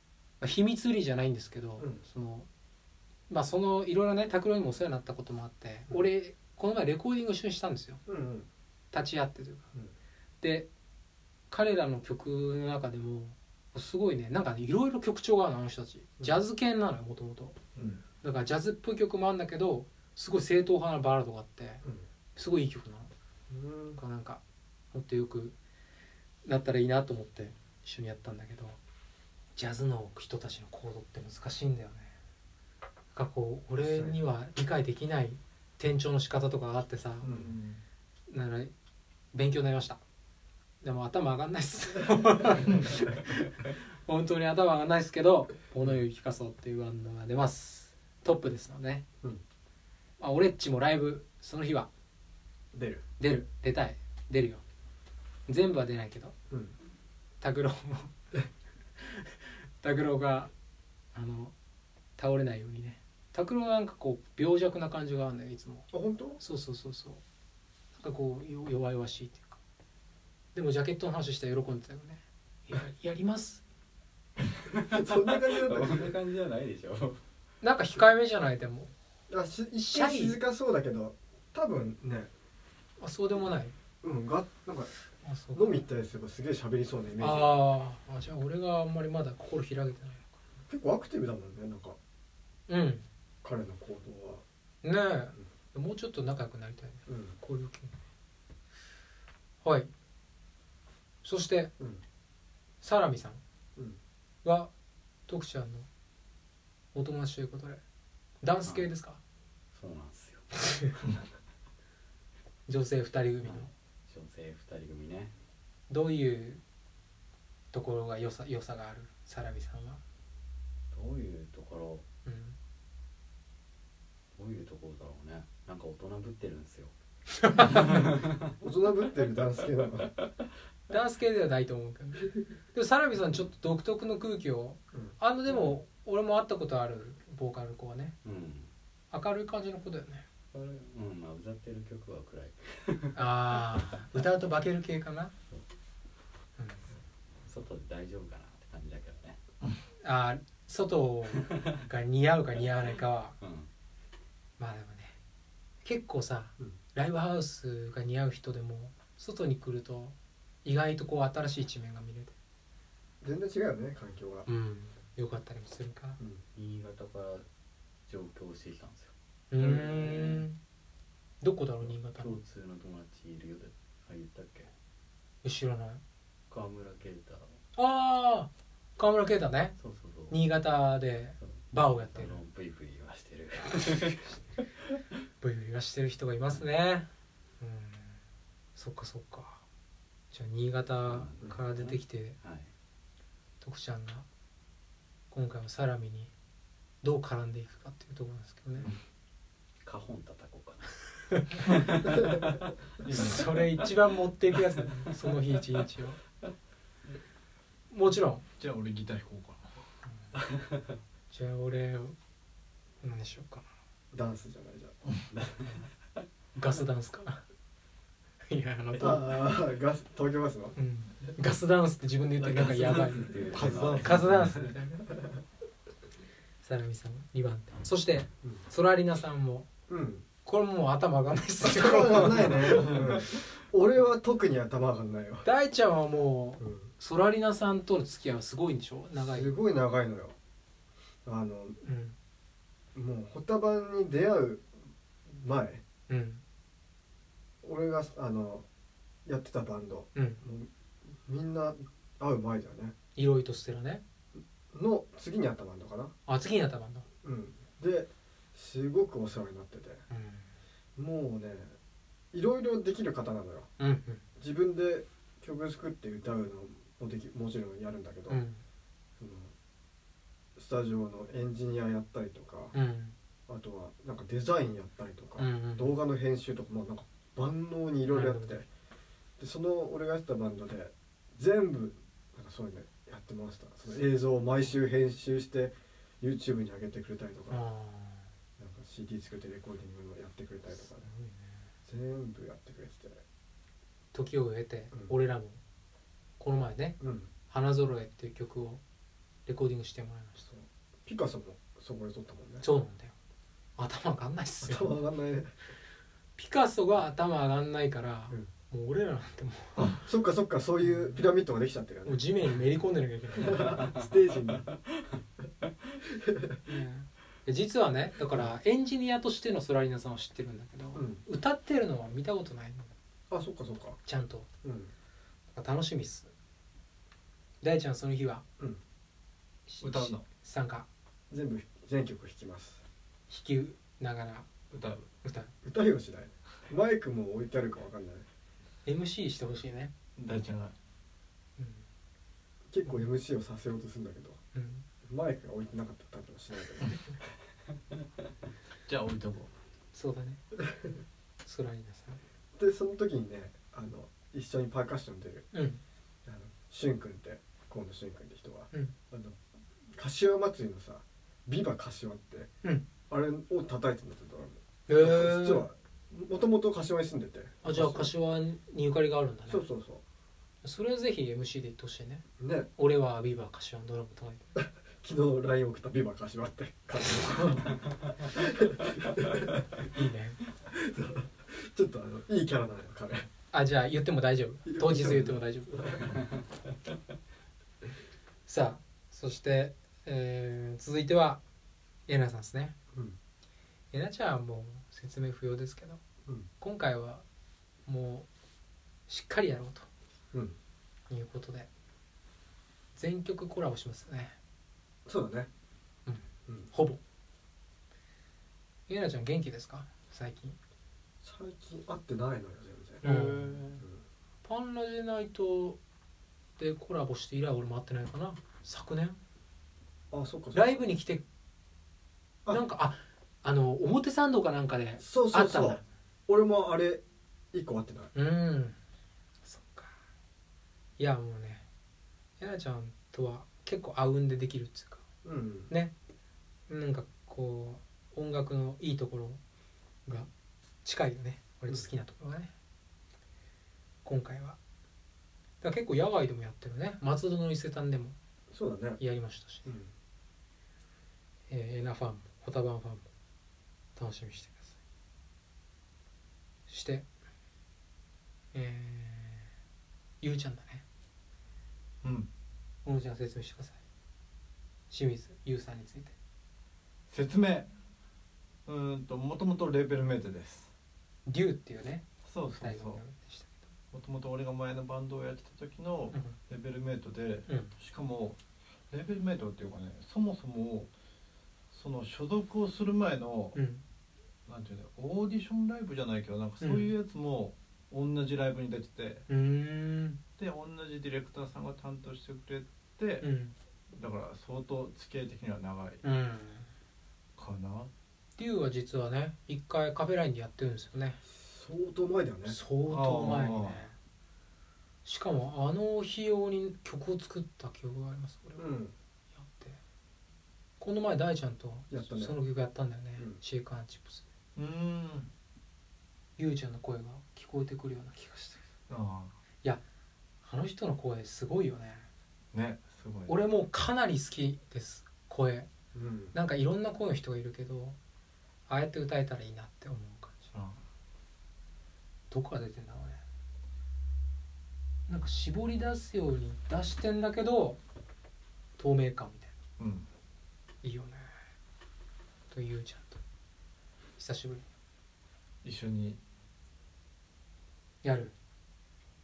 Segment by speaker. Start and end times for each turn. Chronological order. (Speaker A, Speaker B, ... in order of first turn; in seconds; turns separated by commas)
Speaker A: 0.4-2.5, Speaker A: 3.3-8.0, Speaker B: 8.1-8.5, Speaker A: 8.9-9.7, Speaker A: 10.4-10.7, Speaker A: 11.5-17.6, Speaker A: 18.2-21.8, Speaker A: 22.4-23.1, Speaker B: 23.5-24.0, Speaker A: 23.9-24.4, Speaker A: 24.9-25.5, Speaker A: 26.4-28.8, Speaker A: 29.6-32.1, Speaker A: 33.1-37.3, Speaker B: 33.8-34.1, Speaker C: 37.2-37.8, Speaker B: 37.2-37.5, Speaker A: 38.3-38.7, Speaker A: 39.3-40.0, Speaker A: 40.8-49.0, Speaker A: 50.2-51.9, Speaker B: 52.7-53.0, Speaker A: 53.2-54.6, Speaker A: 55.5-56.3, Speaker A: 57.4-58.1, Speaker A: 59.0-60.5, Speaker A: 61.1-61.5, Speaker A: 62.2-65.9, Speaker B: 65.9-66.4, Speaker A: 66.4-67.2, Speaker A: 68.0-69.6, Speaker A: 70.5-73.6, Speaker D: 74.7-77.2, Speaker B: 74.9-76.2, Speaker A: 77.6-78.9, Speaker B: 79.3-82.3, Speaker A: 79.8-80.4, Speaker A: 83.0-83.7, Speaker B: 84.0-84.9, Speaker A: 85.2-85.8, Speaker B: 85.5-87.6, Speaker A: 87.2-90.3, Speaker B: 90.7-92.0, Speaker A: 92.7-93.0, Speaker B: 93.4-94.4, Speaker A: 94.8-98.0, Speaker B: 97.1-97.3, Speaker A: 99.6-99.9, Speaker A: 101.2-101.7, Speaker A: 102.8-103.4, Speaker A: 104.4-104.7, Speaker A: 105.3-105.9, Speaker A: 106.9-107.8, Speaker A: 108.4-109.2, Speaker D: 109.7-110.9, Speaker A: 112.7-113.7, Speaker D: 113.4-115.3, Speaker A: 115.9-116.6, Speaker A: 117.7-120.0, Speaker D: 120.9-122.0, Speaker A: 122.2-122.5, Speaker D: 124.3-126.9, Speaker A: 127.4-128.0, Speaker D: 127.6-128.5, Speaker B: 128.6-130.1, Speaker A: 130.9-138.1, Speaker D: 138.2-138.7, Speaker A: 139.1-140.2, Speaker D: 140.5-143.6, Speaker A: 143.1-145.3, Speaker A: 146.6-146.8, Speaker D: 147.4-149.4, Speaker A: 150.0-153.3, Speaker D: 153.4-153.7, Speaker A: 154.6-155.2, Speaker A: 155.8-162.3, Speaker B: 163.2-164.5, Speaker A: 164.5-166.2, Speaker D: 166.5-167.4, Speaker D: 168.1-170.4, Speaker A: 169.5-170.6, Speaker A: 171.4-172.3, Speaker D: 171.8-174.7, Speaker A: 175.4-176.0, Speaker D: 176.5-177.6, Speaker A: 177.8-179.7, Speaker D: 179.8-180.4, Speaker A: 180.3-182.3, Speaker D: 181.4-184.3, Speaker A: 185.4-187.1, Speaker A: 187.6-188.2, Speaker A: 188.8-189.6, Speaker A: 190.3-192.4, Speaker D: 191.1-192.7, Speaker A: 193.6-194.2, Speaker A: 195.3-196.3, Speaker A: 197.0-198.9, Speaker D: 199.8-201.0, Speaker A: 201.3-201.6, Speaker D: 201.6-202.7, Speaker C: 203.0-203.4, Speaker A: 203.1-206.2, Speaker A: 207.9-208.4, Speaker C: 208.6-209.7, Speaker D: 210.5-210.8, Speaker A: 211.3-212.1, Speaker A: 213.0-213.6, Speaker B: 214.1-214.9, Speaker D: 215.3-215.8, Speaker A: 216.5-217.4, Speaker A: 218.5-219.5, Speaker B: 218.9-220.8, Speaker A: 220.8-223.4, Speaker D: 222.4-224.6, Speaker C: 223.5-224.7, Speaker A: 224.0-225.0, Speaker A: 226.6-229.7, Speaker B: 229.9-230.2, Speaker A: 230.4-233.0, Speaker B: 231.6-235.4, Speaker C: 232.7-233.2, Speaker A: 235.4-239.5, Speaker B: 236.6-236.9, Speaker B: 239.2-240.3, Speaker B: 241.2-241.8, Speaker A: 241.8-242.1, Speaker B: 242.9-244.7, Speaker B: 245.3-245.8, Speaker A: 246.1-246.4, Speaker B: 247.6-248.7, Speaker B: 249.2-252.9, Speaker A: 253.2-254.0, Speaker B: 254.7-256.1, Speaker A: 256.3-257.0, Speaker B: 257.2-260.0, Speaker A: 260.1-260.5, Speaker B: 260.9-261.7, Speaker B: 262.3-263.7, Speaker A: 263.8-264.2, Speaker B: 264.4-268.4, Speaker A: 268.3-268.6, Speaker B: 269.2-269.5, Speaker B: 270.6-272.7, Speaker A: 272.7-273.1, Speaker B: 273.5-278.6, Speaker A: 275.4-275.9, Speaker A: 278.1-278.6, Speaker B: 279.4-287.6, Speaker A: 287.5-288.2, Speaker B: 288.6-291.1, Speaker A: 291.1-291.4, Speaker B: 291.8-293.2, Speaker A: 294.1-295.6, Speaker A: 296.4-297.0, Speaker B: 297.0-297.3, Speaker A: 297.5-298.8, Speaker A: 299.5-300.5, Speaker B: 300.5-302.6, Speaker A: 302.6-303.1, Speaker A: 303.8-305.0, Speaker B: 304.6-305.5, Speaker A: 306.4-310.0, Speaker B: 309.8-312.2, Speaker A: 310.8-311.1, Speaker A: 312.1-313.8, Speaker B: 313.4-314.7, Speaker B: 316.1-316.6, Speaker A: 316.6-322.9, Speaker B: 320.9-321.2, Speaker B: 323.3-324.0, Speaker A: 324.1-324.5, Speaker B: 324.6-324.9, Speaker A: 325.5-326.3, Speaker A: 327.6-328.4, Speaker A: 329.7-330.9, Speaker C: 329.8-330.2, Speaker B: 331.3-332.8, Speaker A: 333.3-334.5, Speaker C: 334.7-335.1, Speaker A: 335.2-335.5, Speaker B: 335.6-338.2, Speaker A: 338.8-339.9, Speaker C: 340.2-340.7, Speaker A: 341.6-341.8, Speaker B: 342.7-344.4, Speaker A: 344.5-344.8, Speaker B: 345.0-347.0, Speaker C: 348.9-349.5, Speaker A: 349.9-350.4, Speaker A: 351.4-352.2, Speaker B: 352.6-355.5, Speaker A: 355.5-355.8, Speaker B: 356.2-359.4, Speaker B: 359.9-362.5, Speaker B: 363.1-368.1, Speaker A: 364.9-365.6, Speaker A: 367.6-369.6, Speaker B: 369.5-370.0, Speaker A: 370.6-372.2, Speaker B: 372.4-372.7, Speaker A: 372.8-374.4, Speaker B: 374.6-379.7, Speaker A: 379.8-380.4, Speaker B: 380.7-383.3, Speaker A: 383.5-386.0, Speaker B: 384.6-386.1, Speaker A: 388.5-391.4, Speaker A: 392.1-392.7, Speaker A: 393.9-396.0, Speaker A: 396.6-397.2, Speaker A: 397.9-398.2, Speaker A: 399.1-399.9, Speaker A: 401.1-401.7, Speaker A: 402.9-404.3, Speaker B: 405.1-405.5, Speaker A: 406.1-407.0, Speaker A: 408.9-410.6, Speaker B: 411.2-413.0, Speaker A: 413.0-413.6, Speaker C: 413.0-413.8, Speaker A: 414.4-415.8, Speaker A: 416.6-419.2, Speaker B: 420.1-420.8, Speaker A: 420.5-421.2, Speaker A: 422.5-425.8, Speaker B: 425.0-428.1, Speaker A: 428.1-428.8, Speaker A: 429.4-429.9, Speaker A: 431.0-431.6, Speaker A: 432.4-435.0, Speaker B: 435.2-435.7, Speaker A: 436.7-439.4, Speaker A: 440.8-442.5, Speaker A: 444.0-444.6, Speaker A: 445.6-448.1, Speaker B: 448.5-449.0, Speaker A: 449.0-449.7, Speaker A: 451.5-453.1, Speaker A: 453.9-454.8, Speaker A: 456.7-457.1, Speaker A: 458.5-459.5, Speaker A: 460.2-460.8, Speaker C: 462.0-462.3, Speaker A: 462.8-463.8, Speaker A: 464.9-466.1, Speaker C: 467.1-467.7, Speaker C: 468.6-470.7, Speaker A: 471.2-473.6, Speaker C: 472.2-473.0, Speaker C: 473.9-478.4, Speaker C: 478.9-480.9, Speaker C: 481.7-483.6, Speaker A: 483.5-483.8, Speaker C: 484.5-489.2, Speaker A: 486.6-486.9, Speaker A: 489.3-490.2, Speaker C: 490.4-493.2, Speaker A: 493.2-493.5, Speaker C: 493.9-496.0, Speaker A: 496.0-496.7, Speaker C: 497.4-497.9, Speaker A: 498.4-501.2, Speaker B: 501.2-502.6, Speaker A: 502.4-503.9, Speaker C: 502.9-503.8, Speaker A: 505.0-508.6, Speaker B: 508.6-508.9, Speaker A: 509.3-509.8, Speaker A: 510.8-514.2, Speaker B: 511.9-512.4, Speaker C: 514.5-515.3, Speaker A: 516.4-518.6, Speaker C: 518.9-519.3, Speaker A: 520.4-522.0, Speaker C: 522.5-523.3, Speaker A: 523.3-525.7, Speaker B: 525.9-526.3, Speaker A: 526.3-528.0, Speaker A: 528.7-530.5, Speaker C: 530.5-530.8, Speaker A: 532.3-533.2, Speaker A: 535.1-537.8, Speaker A: 538.8-539.5, Speaker C: 539.8-540.0, Speaker A: 540.8-541.3, Speaker A: 542.5-543.2, Speaker A: 544.2-544.6, Speaker C: 545.6-546.2, Speaker A: 548.0-548.3